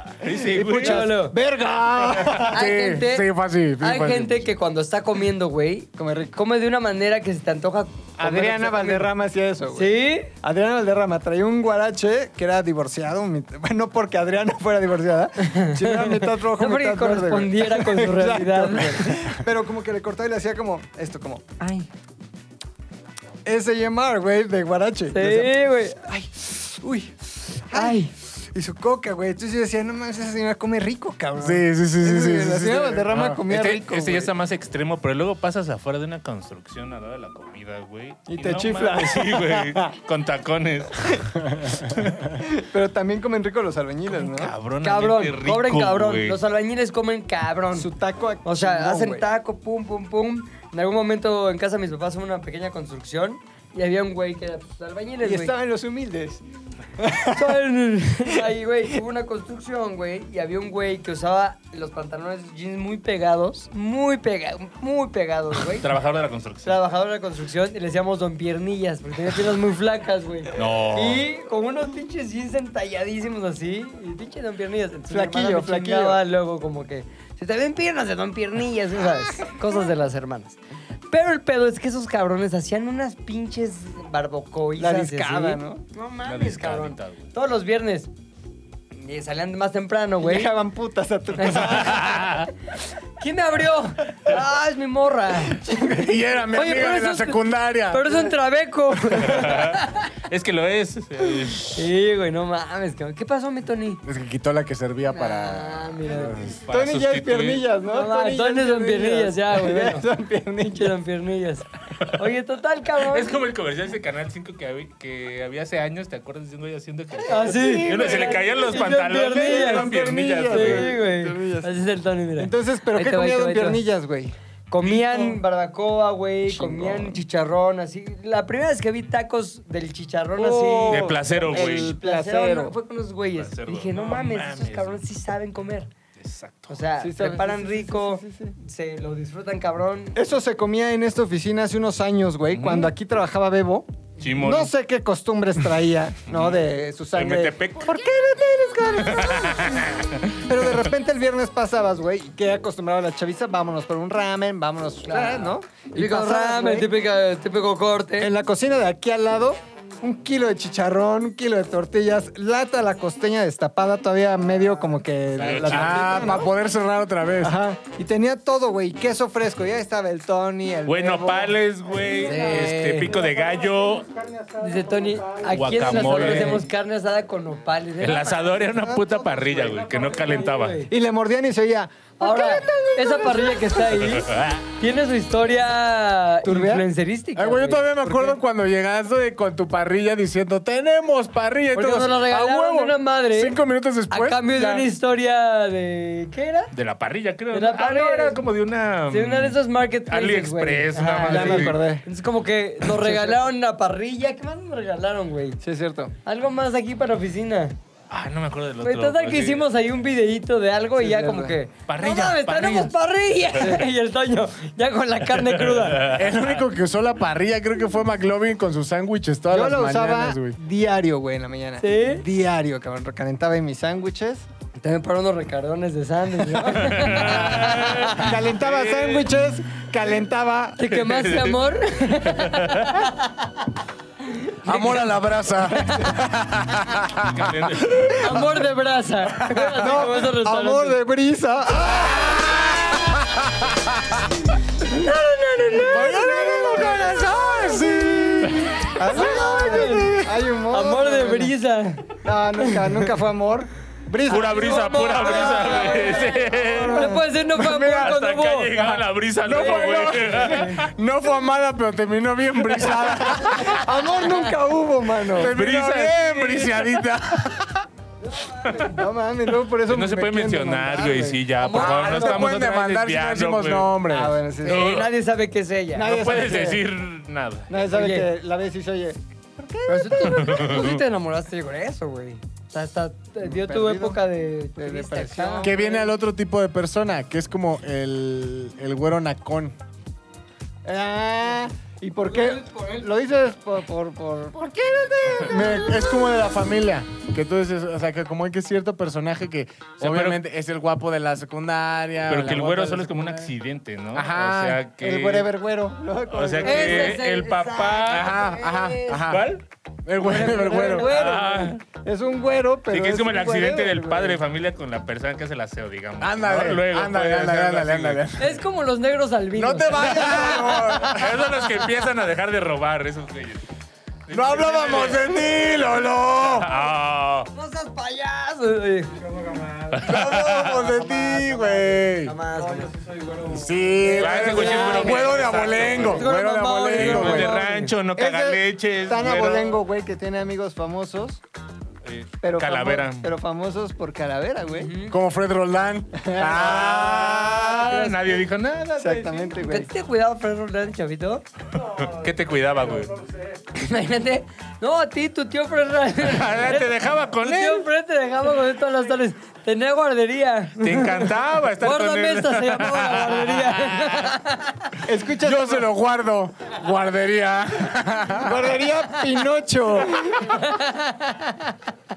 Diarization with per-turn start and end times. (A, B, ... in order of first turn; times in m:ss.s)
0:00.2-0:01.1 A
0:00.2-0:02.6 B
0:00.6-0:01.4 C
0:02.3-0:04.5 D
0:02.5-0:09.1 C
0:06.0-0:06.4 B
0:08.2-0:21.6 B
0:09.7-0:10.3 C
0:15.4-0:19.2 C
0:21.6-0:21.9 C
0:23.4-0:34.3 B
0:25.1-0:26.0 C
0:27.7-0:28.1 C
0:31.4-0:33.4 D
0:33.4-0:41.3 A
0:38.3-0:39.9 B
0:42.3-0:44.5 B
0:44.1-0:46.4 A
0:44.8-0:47.9 C
0:47.7-0:49.2 B
0:48.4-0:55.5 C
0:55.2-0:56.4 B
0:57.0-0:57.5 B
0:57.3-1:05.9 C
1:05.7-1:06.8 A
1:06.6-1:20.6 C
1:10.5-1:11.3 A
1:15.1-1:16.2 B
1:21.1-1:28.1 C
1:24.8-1:25.8 B
1:26.2-1:27.3 A
1:28.9-1:30.5 C
1:30.2-1:32.4 B
1:31.4-1:32.1 C
1:31.7-1:32.5 A
1:33.2-1:35.6 C
1:35.5-1:36.2 B
1:35.9-1:38.2 D
1:36.5-1:40.1 C
1:39.2-1:41.8 A
1:41.6-1:44.0 C
1:44.0-1:46.6 D
1:45.1-1:46.4 C
1:46.6-1:47.6 A
1:46.7-1:51.0 B
1:47.9-1:50.0 C
1:50.8-1:53.4 C
1:53.0-2:00.9 A
1:57.2-1:59.9 C
1:57.3-2:01.7 B
2:00.4-2:03.9 C
2:02.4-2:05.4 B
2:04.7-2:15.9 C
2:10.4-2:12.7 B
2:10.9-2:12.0 A
2:13.3-2:15.0 A
2:16.2-2:16.8 A
2:16.7-2:20.2 C
2:17.0-2:18.5 B
2:20.1-2:29.9 B
2:22.5-2:22.9 A
2:24.2-2:24.7 A
2:26.3-2:28.0 A
2:29.0-2:30.9 A
2:30.4-2:36.9 B
2:35.1-2:38.3 C
2:38.2-2:46.5 B
2:45.3-2:46.4 A
2:45.5-2:47.6 D
2:47.4-2:51.5 B
2:50.8-2:54.1 A
2:52.1-2:53.2 C
2:54.6-2:58.6 C
2:55.5-2:56.7 A
2:56.0-2:56.5 B
2:58.0-3:00.8 A
2:58.6-2:59.8 B
3:00.1-3:00.9 C
3:00.9-3:04.0 B
3:02.2-3:08.4 C
3:04.0-3:04.6 A
3:06.4-3:06.8 B
3:07.4-3:14.8 D
3:11.7-3:13.6 C
3:14.1-3:16.7 C
3:16.7-3:21.8 A
3:17.5-3:18.4 C
3:19.1-3:25.6 C
3:21.2-3:22.0 B
3:25.6-3:26.1 B
3:26.2-3:27.8 C
3:28.1-3:29.7 A
3:28.8-3:36.2 C
3:31.0-3:31.6 B
3:31.9-3:33.0 A
3:35.4-3:36.4 A
3:36.0-3:40.6 D
3:39.5-3:44.5 B
3:41.8-3:42.2 C
3:44.8-3:48.2 C
3:46.7-3:49.3 A
3:47.4-3:50.9 B
3:50.8-3:53.5 C
3:50.9-3:53.0 A
3:54.2-3:55.1 C
3:54.6-3:58.1 D
3:57.2-3:58.3 A
3:58.2-4:01.0 C
3:59.6-4:02.7 B
4:02.0-4:04.2 D
4:04.8-4:06.7 C
4:05.8-4:10.0 D
4:06.0-4:07.8 B
4:08.8-4:11.5 B
4:09.0-4:12.9 C
4:12.2-4:17.2 B
4:14.2-4:17.2 A
4:14.3-4:18.8 C
4:17.6-4:23.9 D
4:17.7-4:20.9 A
4:19.5-4:20.8 C
4:23.4-4:25.5 B
4:25.2-4:27.8 D
4:25.4-4:27.1 A
4:28.3-4:29.0 C
4:28.8-4:31.4 B
4:29.9-4:34.0 A
4:31.6-4:32.5 C
4:31.7-4:34.4 D
4:34.1-4:34.9 B
4:34.6-4:36.5 C
4:34.6-4:35.1 A
4:35.9-4:36.8 B
4:36.0-4:37.7 A
4:37.7-4:40.9 B
4:37.8-4:38.3 C
4:39.8-4:46.0 C
4:40.2-4:41.0 A
4:43.4-4:44.2 B
4:44.8-4:45.9 B
4:45.6-4:49.8 D
4:50.8-4:56.3 B
4:52.3-4:53.1 C
4:55.4-5:03.5 D
5:00.0-5:00.4 A
5:02.3-5:05.5 A
5:04.1-5:04.8 D
5:05.0-5:07.2 B
5:06.3-5:08.4 A
5:06.6-5:09.3 C
5:08.1-5:11.1 D
5:09.2-5:09.6 A
5:10.2-5:11.7 C
5:10.9-5:11.8 A
5:11.1-5:11.4 B
5:12.0-5:14.4 B
5:12.9-5:18.2 A
5:16.2-5:18.5 D
5:18.4-5:21.1 C
5:19.5-5:21.7 D
5:20.1-5:23.6 A
5:24.3-5:25.6 A
5:24.3-5:26.7 D
5:26.4-5:27.5 A
5:27.5-5:29.2 C
5:29.9-5:30.8 A
5:30.0-5:32.3 D
5:30.7-5:32.9 C
5:32.6-5:33.5 B
5:33.4-5:37.5 D
5:34.0-5:35.9 B
5:34.1-5:35.4 C
5:34.1-5:36.2 A
5:36.0-5:37.9 C
5:36.9-5:39.8 A
5:38.1-5:41.4 B
5:42.0-5:43.3 A
5:42.4-5:44.9 B
5:44.7-5:45.2 C
5:45.1-5:47.4 D
5:46.2-5:48.3 B
5:46.5-5:49.5 A
5:47.8-5:48.3 C
5:49.0-5:49.9 B
5:49.6-5:51.4 C
5:51.8-5:53.2 A
5:53.7-6:01.2 C
5:56.2-5:57.9 A
6:00.8-6:04.4 A
6:01.8-6:05.0 C
6:05.0-6:05.9 B
6:05.4-6:08.7 D
6:08.4-6:10.5 B
6:10.4-6:11.8 C